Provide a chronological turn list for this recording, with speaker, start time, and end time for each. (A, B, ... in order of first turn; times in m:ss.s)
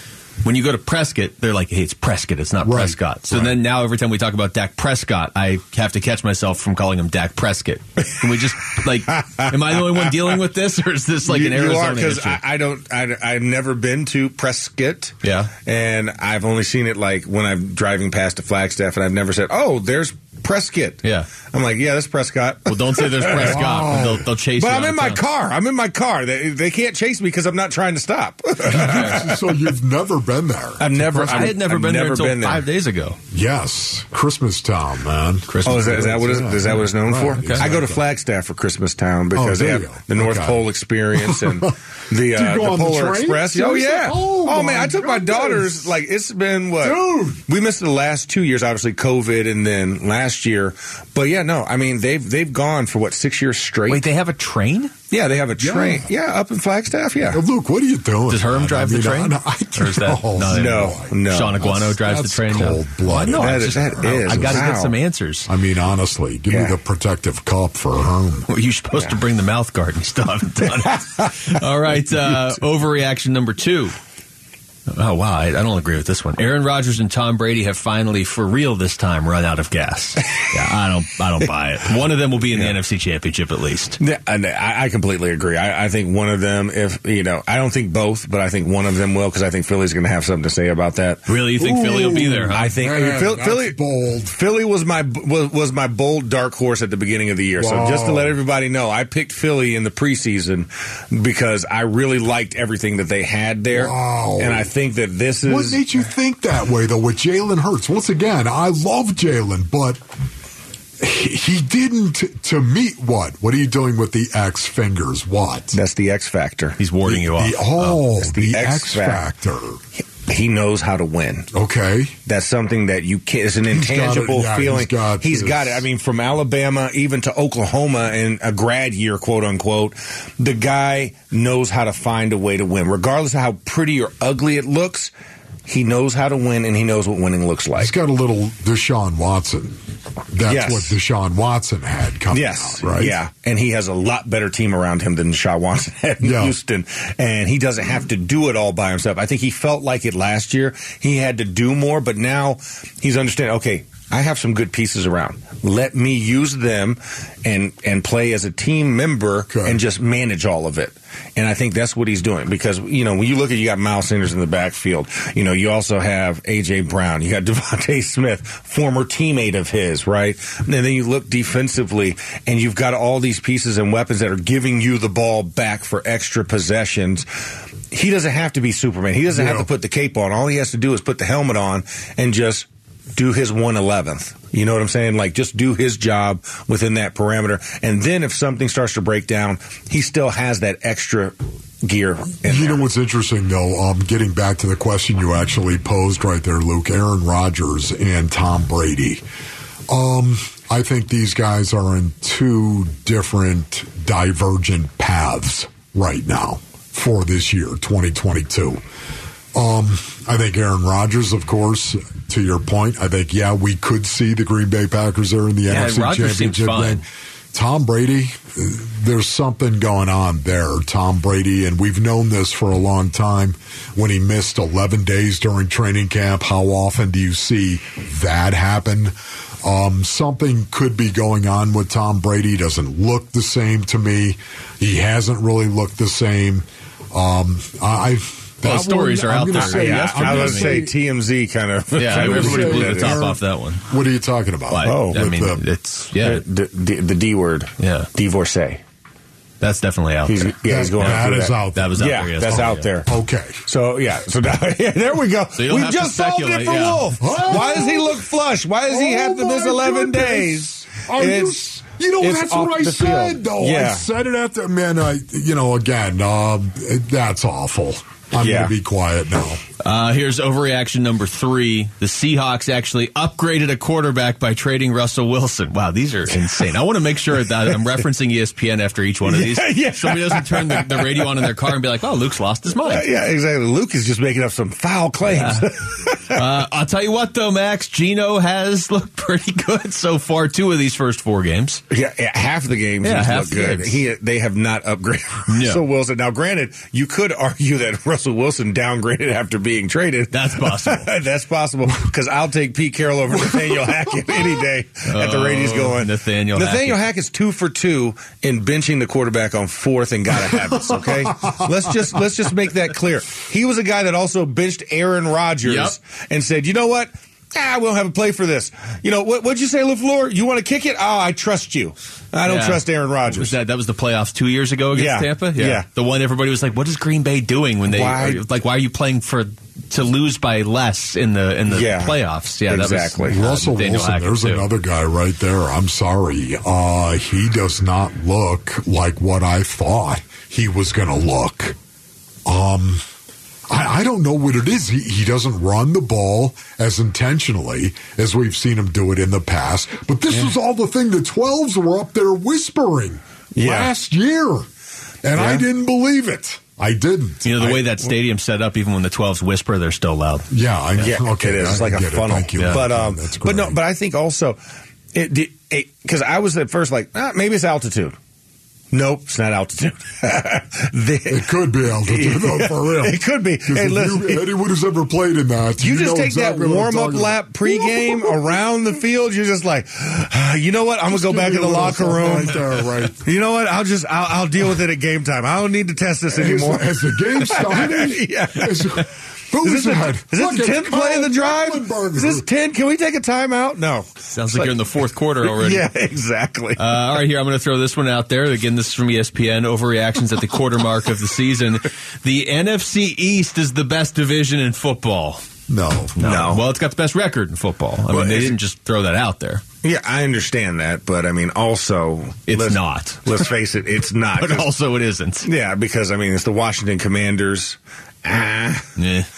0:00.4-0:12.4 A
0:02.6-0:03.4 B
0:09.1-0:10.2 C
0:11.2-0:15.1 C
0:15.2-0:15.5 A
0:15.6-0:24.0 C
0:21.0-0:21.3 A
0:22.7-0:25.2 A
0:23.4-0:24.3 B
0:24.6-0:29.6 C
0:28.6-0:31.6 B
0:28.8-0:29.2 A
0:30.8-0:32.6 C
0:31.1-0:33.2 A
0:33.3-0:38.0 B
0:35.5-0:36.1 A
0:35.6-0:54.0 C
0:37.4-0:37.7 A
0:39.3-0:40.6 B
0:41.1-0:45.9 B
0:46.8-0:47.4 B
0:53.9-0:54.9 A
0:55.1-0:57.4 C
0:55.6-0:56.1 B
0:57.3-1:04.7 B
0:58.3-1:05.5 A
1:00.5-1:01.7 C
1:03.4-1:04.9 C
1:05.5-1:08.5 B
1:06.5-1:06.7 C
1:08.5-1:13.9 A
1:14.9-1:24.0 A
1:24.0-1:31.2 C
1:31.3-1:32.7 A
1:31.6-1:34.3 B
1:31.8-1:33.8 C
1:34.3-1:45.8 C
1:37.6-1:38.4 B
1:43.7-1:44.7 B
1:45.4-1:50.0 B
1:51.0-1:55.8 B
1:55.7-1:56.8 C
1:56.8-1:58.0 A
1:57.1-1:59.8 B
1:58.2-1:59.2 C
2:00.2-2:01.5 C
2:01.5-2:02.2 B
2:02.2-2:15.1 C
2:03.7-2:05.8 B
2:15.7-2:17.9 C
2:17.8-2:19.8 B
2:20.3-2:23.2 B
2:20.5-2:20.9 C
2:22.3-2:57.3 C
2:26.2-2:26.5 B
2:39.5-2:39.8 B
2:57.9-3:12.8 C
2:59.3-2:59.7 B
3:12.4-3:19.2 B
3:19.9-3:28.8 B
3:29.5-4:00.9 B
3:35.7-3:37.0 A
3:58.6-4:00.9 A
3:59.5-4:03.2 C
4:02.0-4:03.8 A
4:02.1-4:05.6 B
4:04.7-4:06.4 A
4:04.8-4:05.2 C
4:06.2-4:08.8 C
4:07.8-4:08.1 A
4:09.6-4:12.9 A
4:10.2-4:13.1 C
4:10.7-4:13.6 B
4:13.6-4:21.6 C
4:15.6-4:17.2 A
4:17.2-4:18.2 B
4:18.9-4:29.6 B
4:22.2-4:24.0 C
4:28.4-4:28.7 C
4:29.8-4:43.1 A
4:39.2-4:41.5 C
4:42.8-4:46.4 C
4:45.3-4:45.7 A
4:46.3-4:51.8 A
4:51.9-5:23.5 C
4:53.0-4:54.0 A
4:55.5-4:55.8 A
5:00.3-5:01.1 A
5:03.3-5:04.6 B
5:05.1-5:07.0 A
5:10.4-5:12.2 B
5:15.6-5:15.9 A
5:22.4-5:34.6 A
5:24.9-5:25.8 C
5:27.9-5:28.4 C
5:31.7-5:33.4 C
5:33.2-5:41.8 B
5:42.4-5:43.0 B
5:43.7-5:54.7 B
5:53.5-5:53.9 C
5:55.2-5:57.8 B
5:55.3-5:55.6 C
5:57.4-6:00.5 A
6:00.5-6:03.8 B
6:01.0-6:04.6 C
6:02.6-6:02.8 A
6:05.1-6:08.2 C
6:08.9-6:14.5 C
6:11.3-6:18.4 B
6:15.8-6:29.1 C
6:21.1-6:23.2 B
6:26.3-6:32.5 B
6:29.6-6:34.7 C
6:34.3-6:35.9 A
6:35.4-6:36.8 C
6:36.8-6:45.4 A
6:45.7-6:46.2 B
6:46.2-6:49.6 A
6:46.2-6:46.6 C
6:48.1-6:48.5 C
6:49.8-6:54.7 C
6:52.5-6:53.4 A
6:54.4-6:55.5 A
6:55.4-6:58.9 C
6:59.0-6:59.3 A